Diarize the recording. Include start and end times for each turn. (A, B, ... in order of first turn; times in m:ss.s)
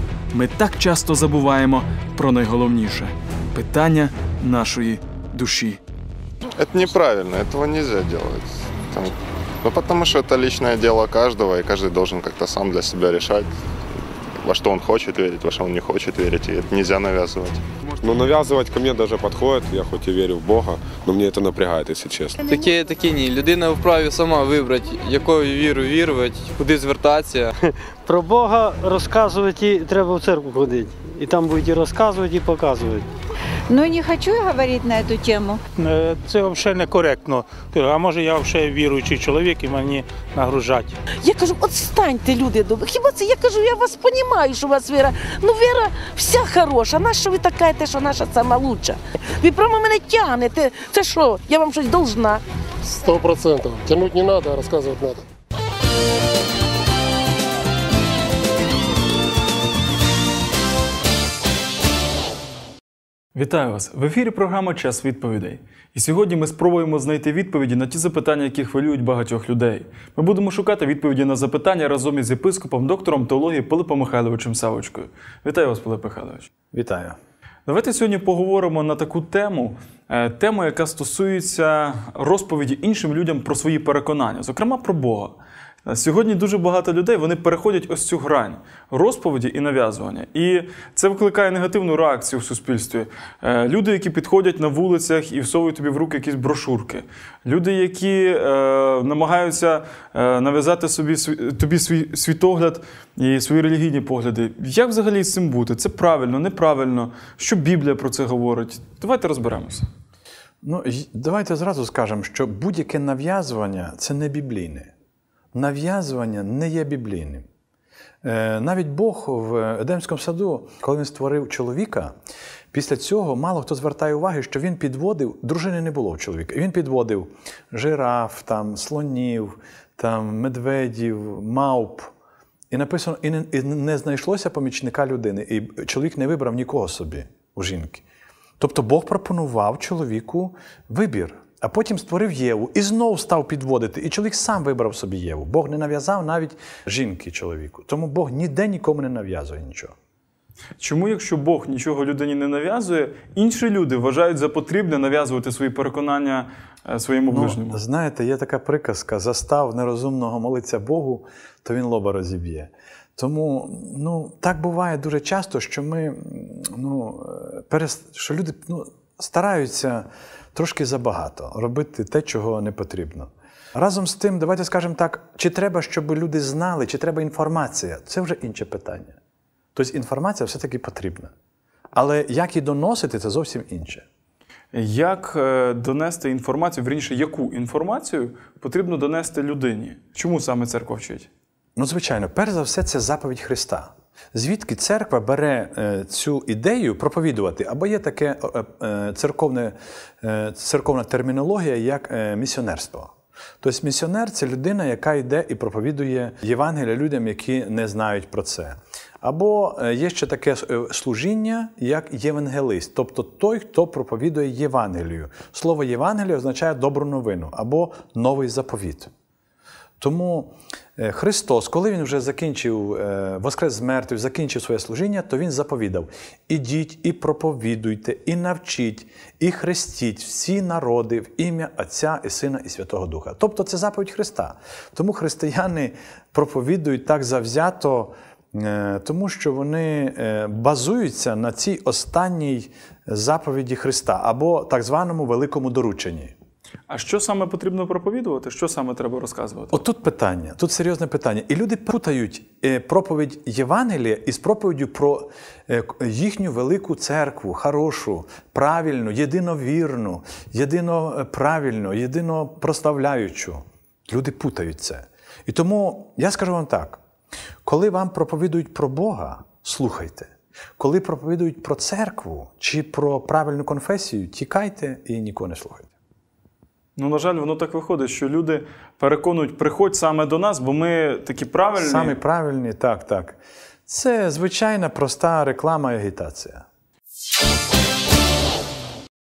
0:00.3-0:05.8 A
0:06.6-0:13.5 B
0:14.4-0:17.6 B
0:18.0-0:22.5 C
0:22.5-0:27.5 D
0:28.0-0:33.1 E
0:33.7-0:35.6 F
0:35.8-0:40.9 G
0:41.2-0:52.4 H
0:52.9-0:55.2 I
1:03.3-1:16.5 A
1:16.7-1:17.2 J
1:17.6-1:49.9 A
1:50.6-1:54.9 J
1:55.5-1:57.4 J
1:58.2-2:02.1 J
2:02.7-2:12.1 J
2:12.7-2:18.0 J
2:18.6-2:29.9 J
2:30.8-2:37.8 A
2:37.3-2:59.2 J
2:59.7-3:01.3 J
3:01.9-3:04.0 J
3:04.7-3:11.3 A
3:11.8-3:39.1 J
3:40.0-4:06.3 J
4:06.9-4:09.8 A
4:09.7-4:27.0 J
4:27.6-4:35.9 J
4:37.0-4:42.2 A
4:41.8-4:46.6 J